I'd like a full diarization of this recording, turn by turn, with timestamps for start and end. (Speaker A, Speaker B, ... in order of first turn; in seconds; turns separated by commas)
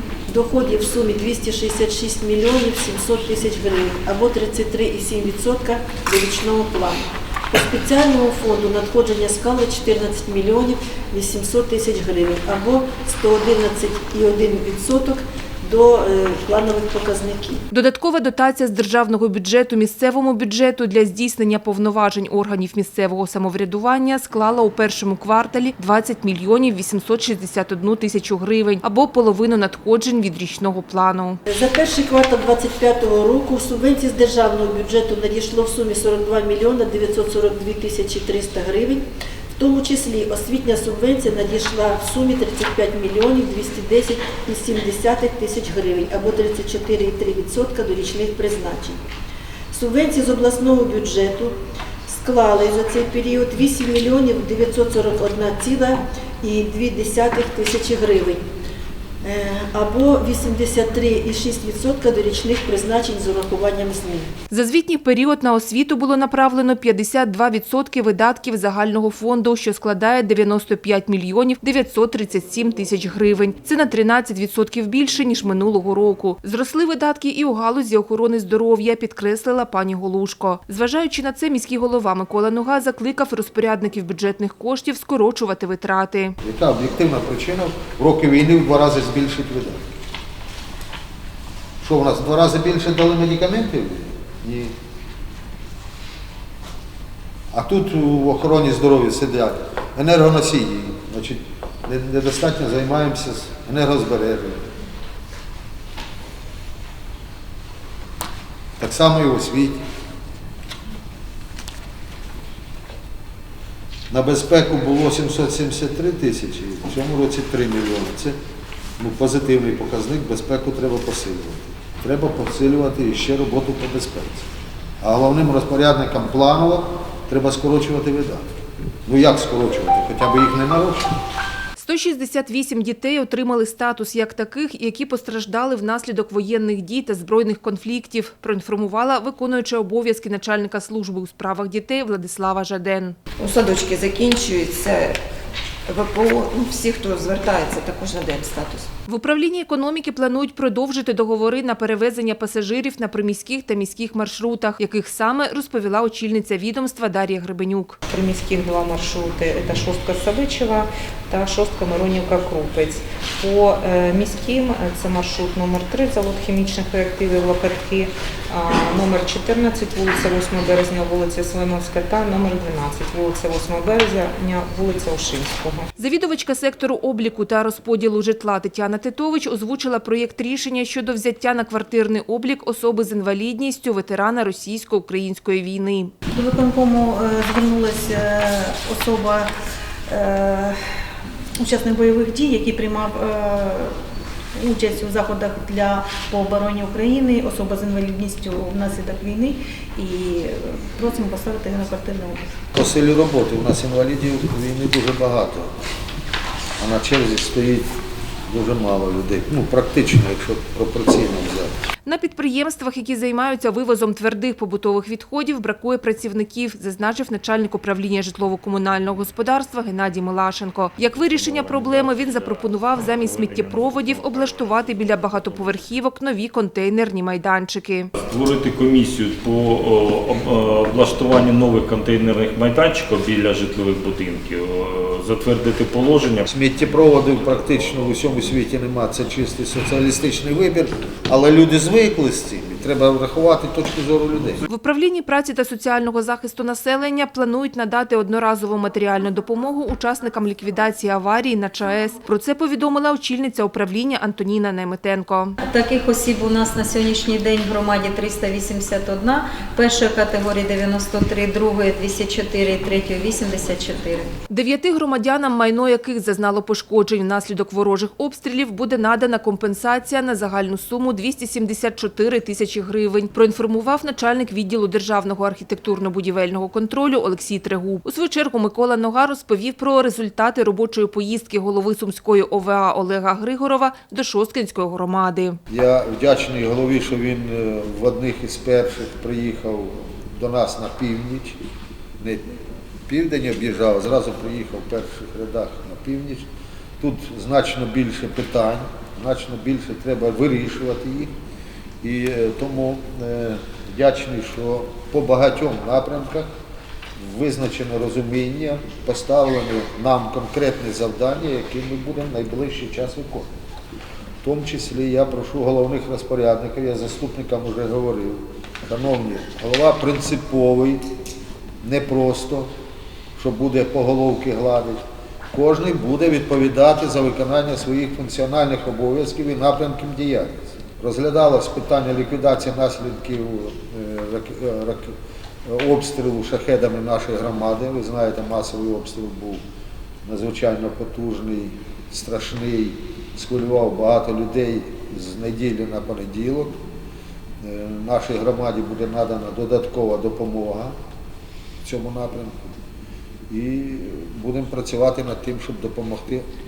Speaker A: 0.3-17.6, Speaker B: 17.7-31.4, Speaker A: 31.5-39.0, Speaker A: 39.6-49.0, Speaker A: 49.7-51.5, Speaker A: 52.1-58.4, Speaker A: 59.2-64.3, Speaker B: 64.5-86.3, Speaker C: 86.4-89.8, Speaker C: 91.8-94.7, Speaker C: 97.5-104.7, Speaker C: 108.8-109.8, Speaker C: 114.1-118.3, Speaker C: 119.0-124.4, Speaker C: 125.0-128.4, Speaker C: 129.1-131.1, Speaker B: 131.8-143.2, Speaker D: 143.4-145.2, Speaker D: 145.8-148.9, Speaker B: 149.1-158.0, Speaker E: 158.1-175.9, Speaker B: 176.0-186.1, Speaker F: 186.3-189.5, Speaker F: 190.1-190.8, Speaker F: 191.6-193.9, Speaker F: 194.6-202.6, Speaker C: 202.7-205.7, Speaker C: 206.8-207.9, Speaker C: 208.5-211.9, Speaker B: 212.0-228.1, Speaker G: 221.5-222.6, Speaker G: 223.1-224.3, Speaker G: 228.2-236.5, Speaker C: 236.5-244.6, Speaker B: 244.6-255.6, Speaker H: 255.6-264.3, Speaker B: 264.5-285.6, Speaker C: 285.7-291.6, Speaker C: 292.2-292.5, Speaker C: 293.1-296.5, Speaker C: 297.0-301.3, Speaker C: 302.0-306.5, Speaker C: 307.2-313.5, Speaker C: 314.4-321.0, Speaker C: 321.8-322.7, Speaker C: 323.4-325.0, Speaker C: 325.5-339.6, Speaker C: 340.2-346.8, Speaker C: 347.6-350.9, Speaker C: 351.8-352.6, Speaker C: 353.5-356.4